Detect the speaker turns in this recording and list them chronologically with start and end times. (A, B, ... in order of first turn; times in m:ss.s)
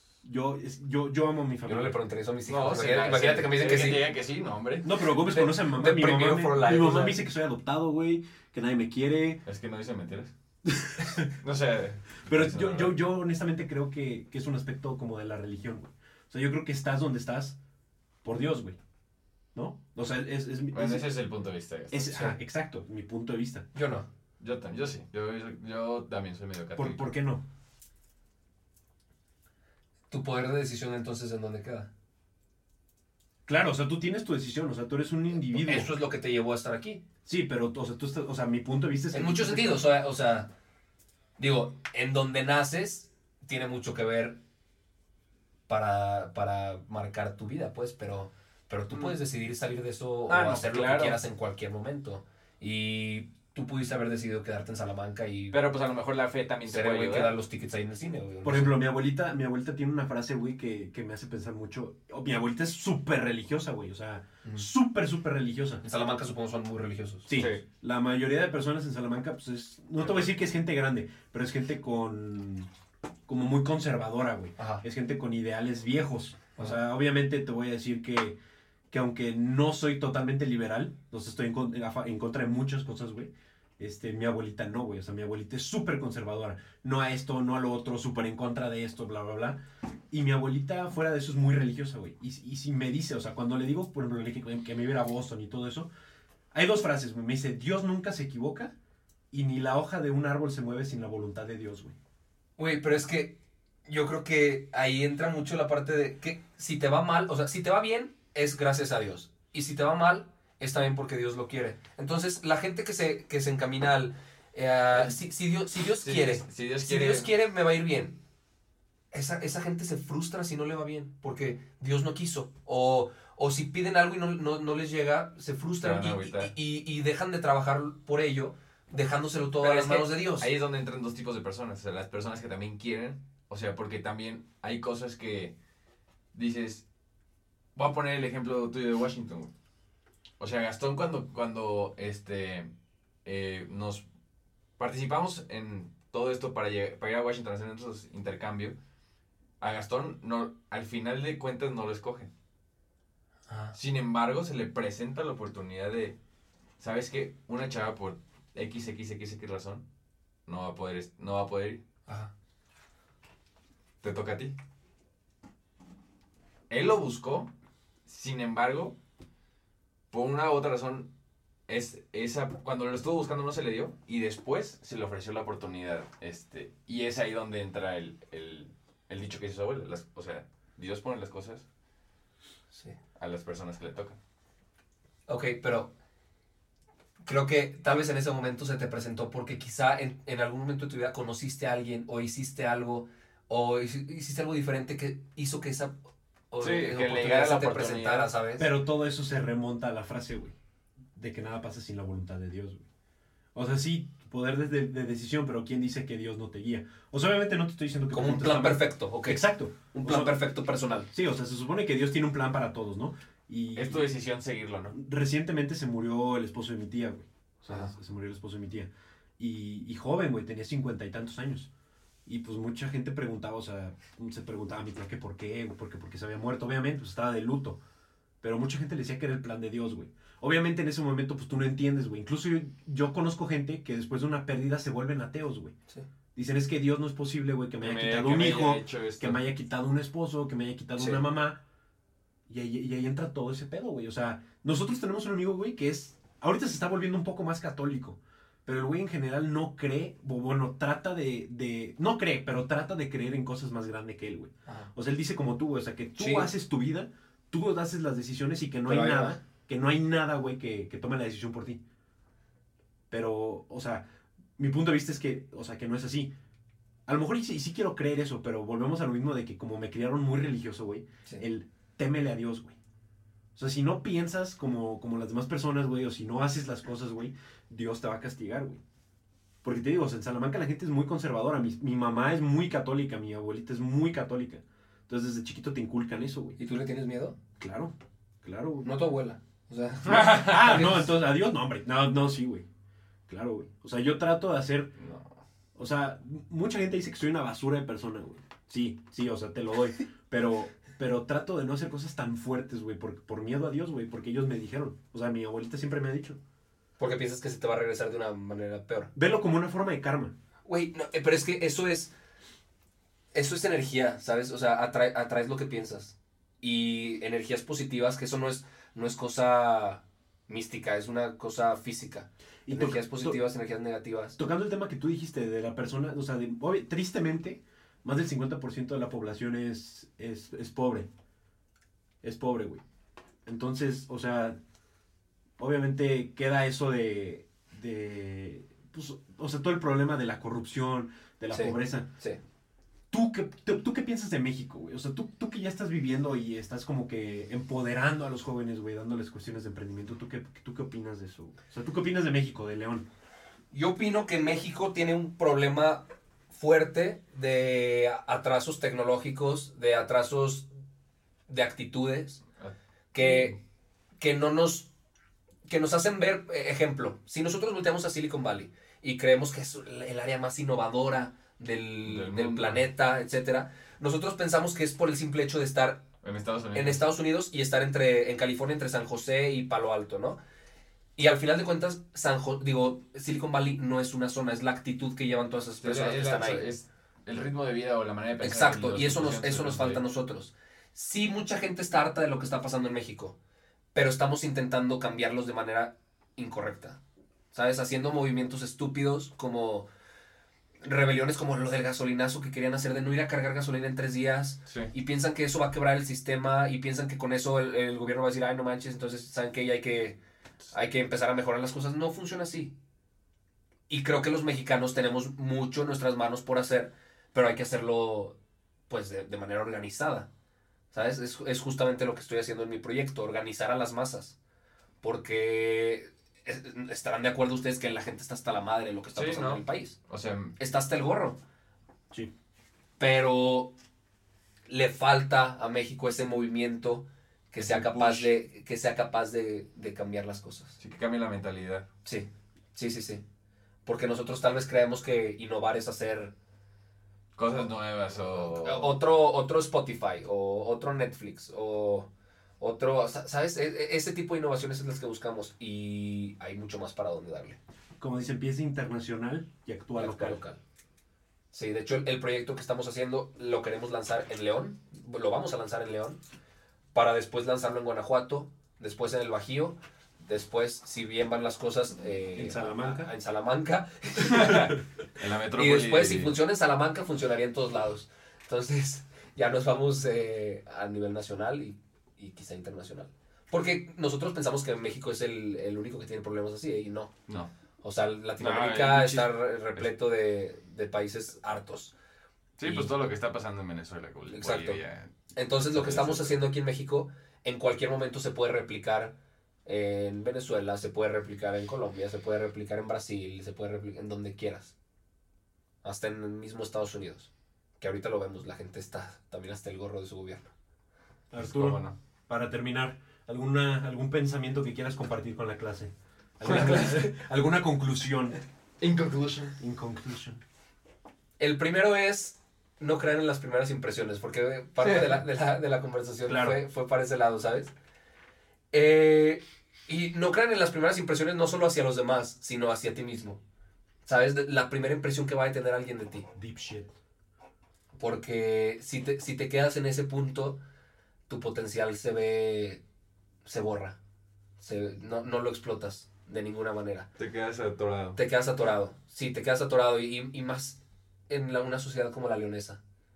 0:00.2-0:02.0 A
0:01.6-0:04.1 B
0:02.5-0:05.0 C
0:04.8-0:09.4 A
0:05.2-0:07.2 B
0:09.4-0:10.3 C
0:10.6-0:11.3 A
0:11.3-0:12.9 C
0:12.3-0:17.6 A
0:18.2-0:18.8 A
0:19.5-0:21.1 A
0:20.7-0:22.1 C
0:21.9-0:23.7 A
0:22.1-0:22.4 B
0:23.7-0:24.1 B
0:24.4-0:27.0 C
0:26.8-0:27.4 A
0:30.1-0:31.9 B
0:33.5-0:35.9 A
0:35.3-0:37.0 B
0:37.2-0:39.8 A
0:39.1-0:40.5 B
0:41.4-0:44.4 B
0:45.7-0:55.6 B
0:50.3-0:51.2 C
0:55.5-0:57.3 C
0:56.7-0:58.8 B
0:58.4-1:05.8 A
1:05.8-1:07.4 B
1:07.2-1:12.7 A
1:07.3-1:07.6 C
1:13.3-1:18.4 A
1:14.6-1:14.8 B
1:18.9-1:35.9 A
1:36.5-1:38.7 A
1:39.3-1:41.9 A
1:42.6-1:58.2 B
1:56.0-1:57.3 C
1:59.1-2:10.5 B
2:05.8-2:06.5 C
2:09.6-2:15.5 C
2:16.3-2:16.8 C
2:17.8-2:19.5 C
2:20.4-2:22.7 C
2:23.2-2:24.0 C
2:24.8-2:28.8 C
2:29.6-2:32.3 C
2:33.5-2:33.7 B
2:33.7-2:36.2 C
2:36.8-2:39.8 C
2:40.4-2:41.8 C
2:42.1-2:42.3 B
2:44.0-2:44.5 C
2:46.7-2:47.5 C
2:48.0-2:49.0 C
2:50.1-2:51.1 C
2:51.7-3:01.6 C
3:03.2-3:04.2 C
3:05.3-3:05.9 B
3:07.2-3:16.0 B
3:16.5-3:18.6 B
3:16.6-3:18.3 C
3:18.6-3:20.6 A
3:21.1-3:22.8 A
3:23.5-3:30.4 A
3:28.1-3:31.1 B
3:31.1-3:34.1 A
3:33.7-3:34.9 C
3:34.9-3:41.7 A
3:42.2-3:47.8 A
3:48.4-3:55.7 A
3:56.3-4:01.6 A
3:57.8-3:59.4 C
4:02.5-4:21.8 A
4:16.2-4:16.5 B
4:18.8-4:19.4 B
4:23.1-4:24.0 A
4:24.6-4:26.3 A
4:27.1-4:32.8 A
4:33.6-4:38.8 A
4:39.6-4:46.6 A
4:46.6-4:47.4 B
4:47.6-4:48.9 A
4:48.8-4:51.1 B
4:50.1-4:50.5 C
4:50.1-4:52.6 A
4:53.3-4:54.9 A
4:55.0-4:55.3 C
4:55.8-5:06.4 A
5:07.0-5:09.1 B
5:09.1-5:10.3 A
5:10.6-5:12.1 B
5:13.3-5:24.4 B
5:22.6-5:23.4 A
5:24.4-5:31.1 A
5:32.2-5:32.8 A
5:33.4-5:34.6 A
5:35.6-5:42.1 A
5:41.5-5:42.4 B
5:43.1-5:53.0 A
5:53.7-6:00.7 B
6:01.5-6:02.4 B
6:02.6-6:03.5 C
6:03.1-6:03.6 B
6:04.2-6:04.9 B
6:05.7-6:16.0 B
6:12.0-6:12.8 C
6:16.2-6:17.0 C
6:16.7-6:20.4 B
6:21.2-6:26.7 B
6:25.8-6:30.0 C
6:28.4-6:33.4 B
6:33.9-6:37.0 B
6:37.5-6:39.9 B
6:40.8-6:50.2 B
6:44.7-6:44.9 C
6:50.7-6:52.7 B
6:53.9-6:58.4 B
6:58.9-7:00.3 B
7:00.9-7:04.4 B
7:05.0-7:10.0 B
7:09.1-7:10.5 C
7:10.6-7:11.4 B
7:13.0-7:13.7 B
7:14.7-7:20.8 B
7:17.6-7:18.3 C
7:20.8-7:21.9 C
7:22.0-7:23.2 B
7:23.8-7:26.3 B
7:27.4-7:28.9 C
7:28.5-7:32.1 B
7:32.6-7:37.6 B
7:38.0-7:40.4 A
7:40.0-7:40.6 B
7:41.5-7:46.2 B
7:46.9-7:54.7 B
7:52.3-7:53.1 A
7:54.2-7:56.3 C
7:55.6-8:07.1 B
8:07.8-8:11.9 B
8:08.4-8:09.9 C
8:12.6-8:15.1 C
8:12.6-8:12.9 B
8:14.3-8:14.8 B
8:15.4-8:24.7 B
8:15.7-8:16.4 C
8:25.8-8:30.5 B
8:31.3-8:38.4 A
8:31.4-8:32.0 C
8:36.4-8:37.0 C
8:38.8-8:39.6 C
8:39.6-8:40.4 A
8:41.4-8:47.7 B
8:44.8-8:45.2 C
8:46.2-8:46.6 A
8:48.7-8:53.4 B
8:54.0-8:56.3 B
8:56.3-8:56.9 A
8:58.0-9:00.6 B
9:01.3-9:02.8 B
9:03.4-9:04.0 B
9:04.6-9:07.1 B
9:07.2-9:08.2 C
9:08.2-9:12.8 B